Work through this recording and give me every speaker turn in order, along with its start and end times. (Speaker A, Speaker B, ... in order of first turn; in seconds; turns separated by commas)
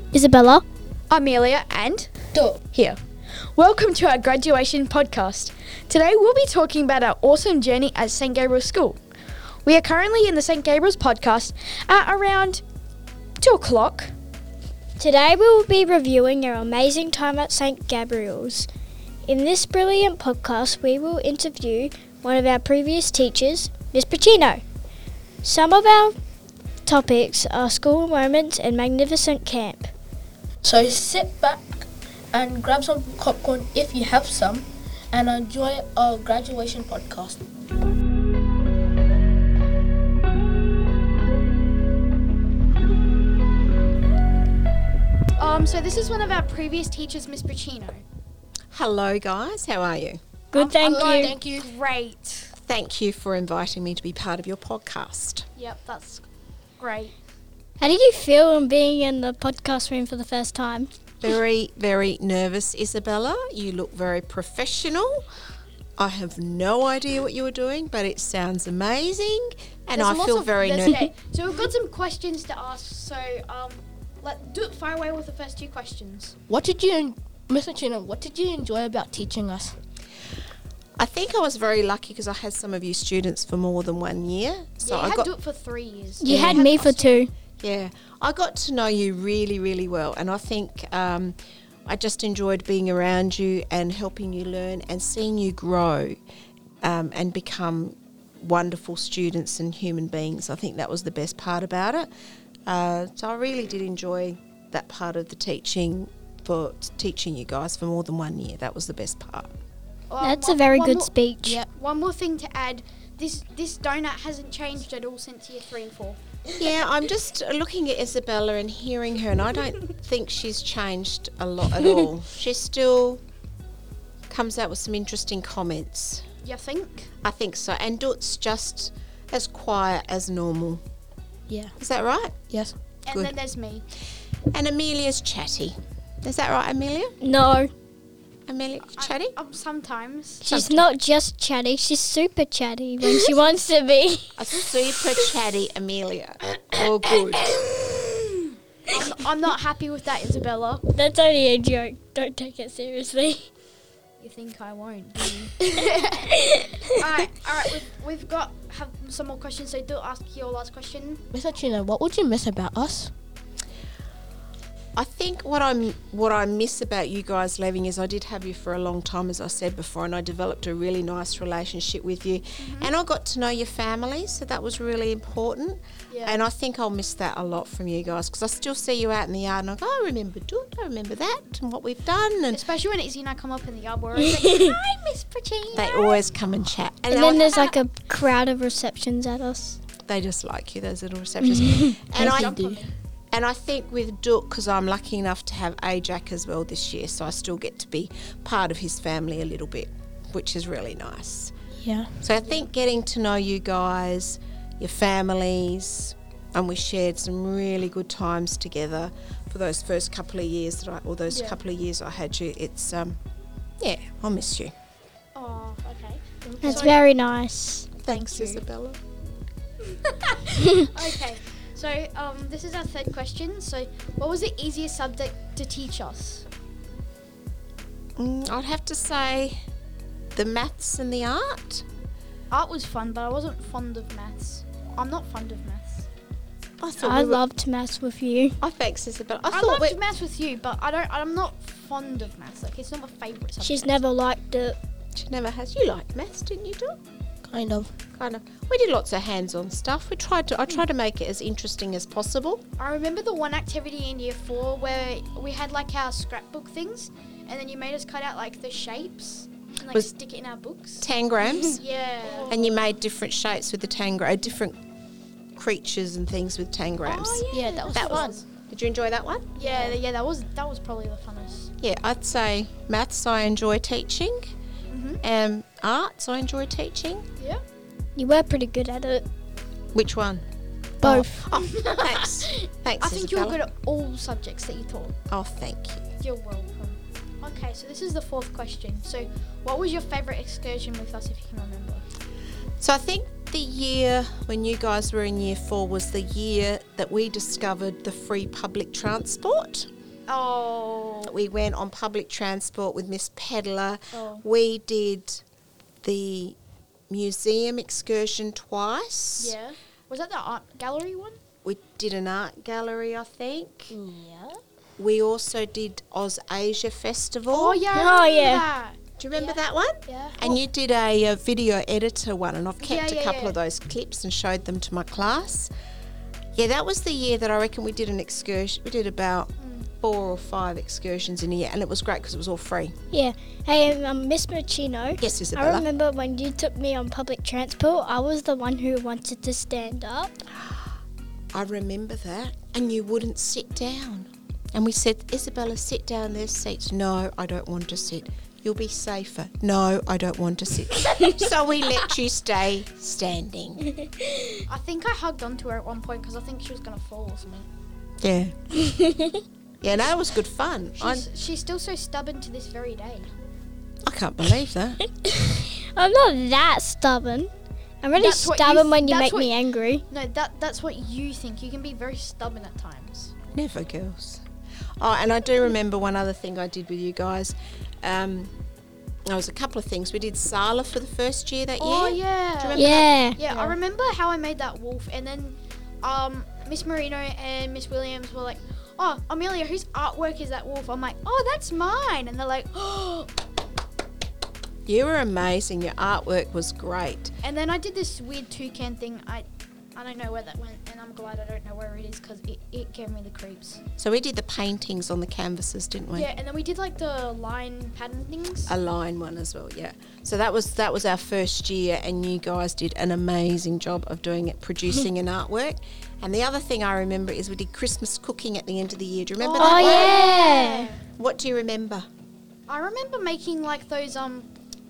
Speaker A: 0.1-0.6, Speaker B: 1.1-2.1, Speaker C: 2.3-2.6, Speaker B: 2.7-3.0, Speaker B: 3.6-9.0, Speaker B: 9.7-12.6, Speaker B: 13.4-14.1, Speaker A: 15.0-18.7, Speaker A: 19.3-24.6, Speaker A: 25.4-26.1, Speaker A: 26.9-29.9, Speaker C: 30.6-37.4, Speaker B: 45.4-48.0, Speaker D: 48.7-50.2, Speaker A: 50.5-51.4, Speaker B: 50.5-52.5, Speaker C: 50.8-51.7, Speaker D: 52.6-55.5, Speaker B: 55.6-56.2, Speaker B: 56.8-57.1, Speaker A: 57.8-60.9, Speaker D: 61.2-65.2, Speaker D: 66.0-71.0, Speaker B: 70.0-76.3, Speaker C: 76.5-79.8, Speaker D: 81.0-85.3, Speaker B: 84.8-87.3, Speaker A: 86.2-87.3, Speaker D: 86.3-86.7, Speaker D: 87.6-96.2, Speaker D: 96.8-102.1, Speaker D: 102.7-109.5, Speaker B: 110.1-116.2, Speaker A: 110.2-111.6, Speaker D: 116.6-123.2, Speaker D: 124.3-126.2, Speaker B: 126.4-127.1, Speaker D: 127.2-130.8, Speaker C: 131.5-131.7, Speaker D: 131.8-132.4, Speaker B: 133.1-133.8, Speaker D: 133.1-133.4, Speaker D: 134.5-137.2, Speaker A: 137.2-137.7, Speaker D: 138.5-139.3, Speaker B: 138.9-140.5, Speaker A: 140.4-144.4, Speaker D: 140.5-140.9, Speaker D: 144.4-147.6, Speaker A: 144.9-145.2, Speaker B: 148.9-150.8, Speaker A: 150.9-153.5, Speaker B: 154.2-155.6, Speaker A: 155.7-156.8, Speaker B: 156.9-161.2, Speaker C: 161.3-163.1, Speaker D: 165.0-182.6, Speaker B: 172.6-172.9, Speaker B: 176.1-176.4, Speaker B: 182.5-186.2, Speaker D: 185.7-187.6, Speaker A: 187.1-189.8, Speaker B: 187.3-187.7, Speaker D: 190.0-192.6, Speaker A: 191.4-191.9, Speaker C: 192.2-192.8, Speaker B: 192.2-192.9, Speaker D: 193.3-201.5, Speaker C: 201.8-202.1, Speaker D: 202.2-213.2, Speaker B: 211.3-211.6, Speaker D: 213.8-214.7, Speaker B: 215.3-217.0, Speaker C: 216.5-216.8, Speaker A: 216.6-217.9, Speaker D: 218.0-219.0, Speaker B: 218.1-218.7, Speaker B: 220.0-226.5, Speaker D: 228.2-229.6, Speaker D: 230.3-231.8, Speaker B: 232.5-236.1, Speaker D: 236.8-237.4, Speaker A: 237.0-238.6, Speaker D: 238.6-240.0, Speaker B: 239.5-244.0, Speaker A: 243.6-244.8, Speaker D: 245.2-247.0, Speaker C: 247.4-247.9, Speaker D: 248.1-252.6, Speaker B: 252.8-262.9, Speaker D: 261.0-261.8, Speaker D: 262.5-264.8, Speaker D: 265.6-269.5, Speaker B: 267.0-268.4, Speaker C: 267.5-268.4, Speaker B: 269.6-271.7, Speaker C: 269.7-269.9, Speaker D: 271.8-274.5, Speaker B: 274.9-275.2, Speaker D: 275.2-277.2, Speaker A: 278.2-279.2, Speaker D: 279.9-280.4, Speaker A: 281.0-281.4, Speaker D: 281.0-283.6, Speaker B: 281.5-285.1, Speaker D: 285.3-286.1, Speaker B: 286.2-292.1, Speaker D: 292.8-299.9, Speaker B: 300.3-301.3, Speaker D: 301.3-305.4, Speaker B: 304.1-304.4, Speaker D: 306.0-306.6, Speaker D: 307.1-309.5, Speaker B: 309.4-311.4, Speaker D: 311.6-313.9, Speaker C: 313.9-314.6, Speaker D: 315.0-317.8, Speaker B: 317.5-320.6, Speaker A: 317.9-318.6, Speaker D: 319.2-325.7, Speaker B: 322.8-323.6, Speaker D: 326.6-332.9, Speaker B: 329.6-329.9, Speaker A: 333.1-340.4, Speaker D: 335.2-335.9, Speaker D: 341.5-353.8, Speaker A: 354.0-354.5, Speaker B: 354.7-357.7, Speaker D: 358.2-358.5, Speaker A: 358.8-359.4, Speaker D: 359.8-361.2, Speaker B: 361.0-363.3, Speaker D: 364.1-365.0, Speaker A: 365.2-367.5, Speaker A: 368.0-370.0, Speaker B: 368.2-369.6, Speaker B: 370.1-373.3, Speaker D: 373.5-374.4, Speaker D: 375.0-378.5, Speaker D: 379.3-383.1, Speaker B: 381.8-393.3, Speaker A: 382.8-383.4, Speaker C: 383.5-383.8, Speaker D: 394.9-397.3, Speaker B: 397.4-403.8, Speaker D: 404.0-406.3, Speaker B: 406.1-408.7, Speaker D: 408.7-420.3, Speaker B: 419.4-421.0, Speaker A: 419.6-420.9, Speaker D: 421.2-422.1, Speaker B: 422.7-424.5